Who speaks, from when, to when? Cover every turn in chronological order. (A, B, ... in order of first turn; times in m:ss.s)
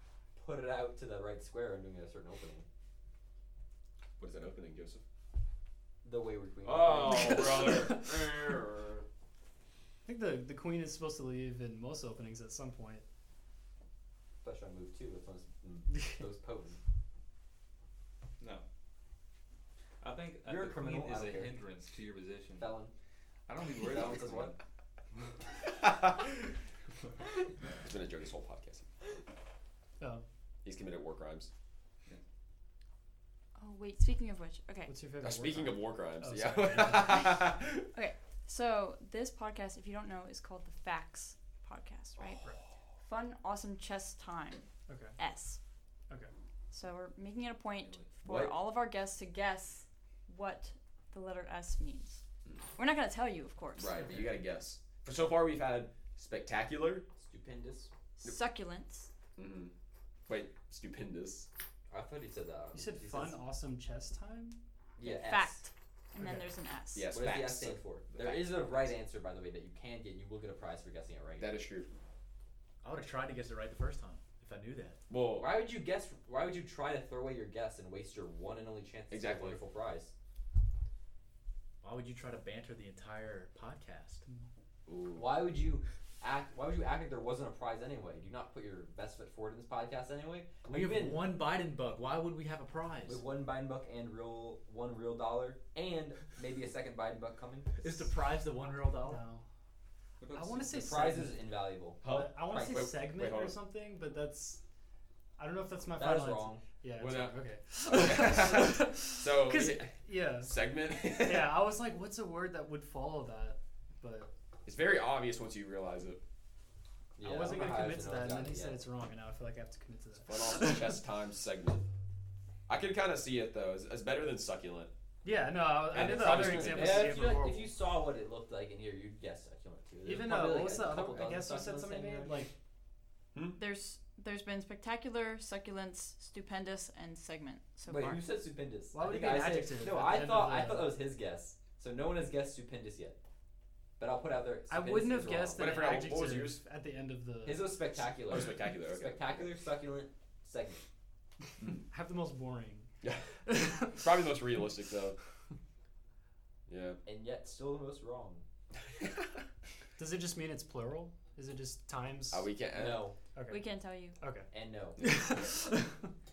0:00.4-0:02.6 A
0:04.2-0:05.0 B
0:06.0-0:07.5 A
0:06.6-0:09.0 B
0:07.1-0:08.5 C
0:10.0-0:13.0 C
0:14.4-0:16.8 A
0:15.9-0:16.2 C
0:18.4-0:18.6 D
0:20.0-0:22.7 D
0:20.4-0:21.6 A
0:22.6-0:22.9 A
0:23.5-0:24.6 D
0:23.8-0:24.5 A
0:25.6-0:26.5 B
0:27.7-0:28.9 B
0:30.0-0:30.2 C
0:30.6-0:31.5 B
0:33.6-0:34.9 E
0:34.8-0:37.5 C
0:35.2-0:37.9 B
0:37.0-0:42.4 E
0:42.3-0:42.6 C
0:43.0-0:45.6 E
0:44.9-0:45.2 C
0:46.7-0:52.2 E
0:48.2-0:48.6 B
0:52.8-0:54.3 E
0:53.8-0:57.0 B
0:57.2-0:57.9 A
0:58.2-0:59.1 E
0:59.4-0:59.7 B
1:00.3-1:01.5 B
1:01.9-1:03.4 A
1:02.7-1:04.6 C
1:05.0-1:05.6 A
1:05.0-1:07.1 E
1:06.2-1:06.5 C
1:06.9-1:08.9 B
1:07.1-1:11.5 A
1:11.4-1:11.9 B
1:12.8-1:15.0 F
1:15.1-1:15.5 B
1:15.4-1:20.1 A
1:19.1-1:19.6 B
1:21.8-1:24.2 F
1:24.9-1:25.4 B
1:25.2-1:31.2 A
1:30.6-1:33.2 F
1:33.1-1:37.8 A
1:37.8-1:39.2 F
1:39.0-1:39.4 C
1:40.2-1:41.0 D
1:40.3-1:41.4 C
1:40.7-1:43.0 A
1:42.0-1:44.6 C
1:42.0-1:43.6 B
1:45.4-1:54.3 C
1:46.0-1:46.6 A
1:47.0-1:47.4 B
1:47.9-1:51.6 B
1:54.6-1:56.2 B
1:57.2-1:58.8 A
1:57.2-2:01.0 C
2:00.2-2:01.9 B
2:02.7-2:04.9 B
2:05.2-2:07.7 C
2:05.9-2:07.5 B
2:05.9-2:12.5 A
2:10.0-2:12.5 C
2:13.3-2:13.6 B
2:13.6-2:18.2 E
2:17.9-2:23.2 A
2:18.9-2:21.0 C
2:24.0-2:25.8 A
2:24.7-2:27.8 C
2:25.5-2:26.6 B
2:27.4-2:30.8 A
2:28.2-2:29.5 B
2:31.9-2:32.9 C
2:33.0-2:35.2 B
2:33.5-2:34.0 C
2:36.7-2:37.0 B
2:37.0-2:38.4 A
2:40.0-2:42.5 C
2:42.3-2:43.0 B
2:42.7-2:43.2 A
2:43.3-2:43.6 C
2:43.5-2:44.2 E
2:44.2-2:44.5 C
2:44.5-2:45.1 A
2:45.0-2:46.1 C